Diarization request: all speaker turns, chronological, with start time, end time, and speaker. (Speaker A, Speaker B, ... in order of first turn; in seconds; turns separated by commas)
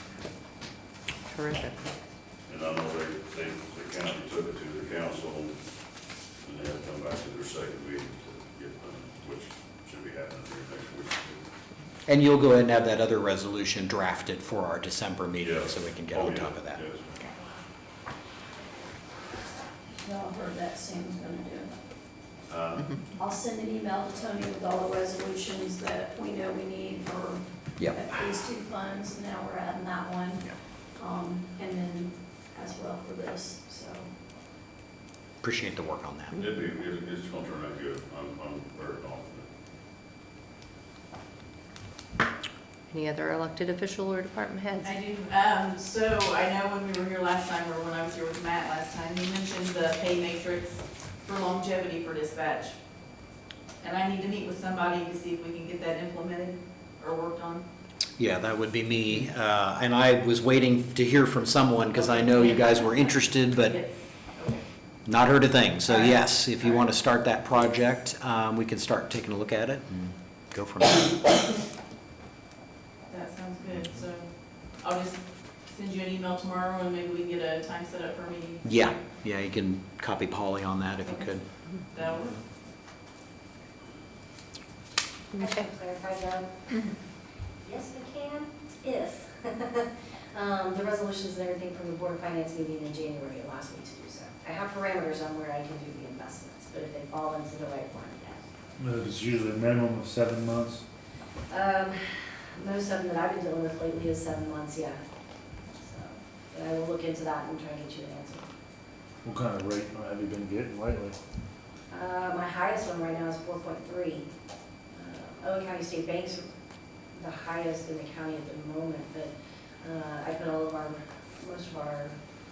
Speaker A: 1.3-1.8, Speaker B: 2.5-5.6, Speaker B: 6.4-11.4, Speaker C: 12.1-16.8, Speaker B: 15.4-17.1, Speaker D: 20.0-21.7, Speaker B: 22.5-23.0, Speaker D: 23.2-30.4, Speaker C: 27.8-28.1, Speaker D: 31.0-34.1, Speaker C: 35.4-36.4, Speaker B: 36.3-39.5, Speaker A: 42.9-44.8, Speaker E: 44.8-52.8, Speaker E: 53.8-57.6, Speaker C: 58.2-63.8, Speaker E: 61.9-64.6, Speaker C: 65.1-71.4, Speaker E: 65.9-66.9, Speaker E: 73.1-78.7, Speaker C: 78.6-82.2, Speaker E: 81.8-82.4, Speaker F: 85.3-86.5, Speaker F: 87.6-98.5, Speaker G: 98.8-100.8, Speaker F: 101.5-105.0, Speaker F: 105.8-108.5, Speaker G: 109.2-111.2, Speaker F: 111.9-114.3, Speaker F: 114.9-116.5, Speaker F: 117.1-122.2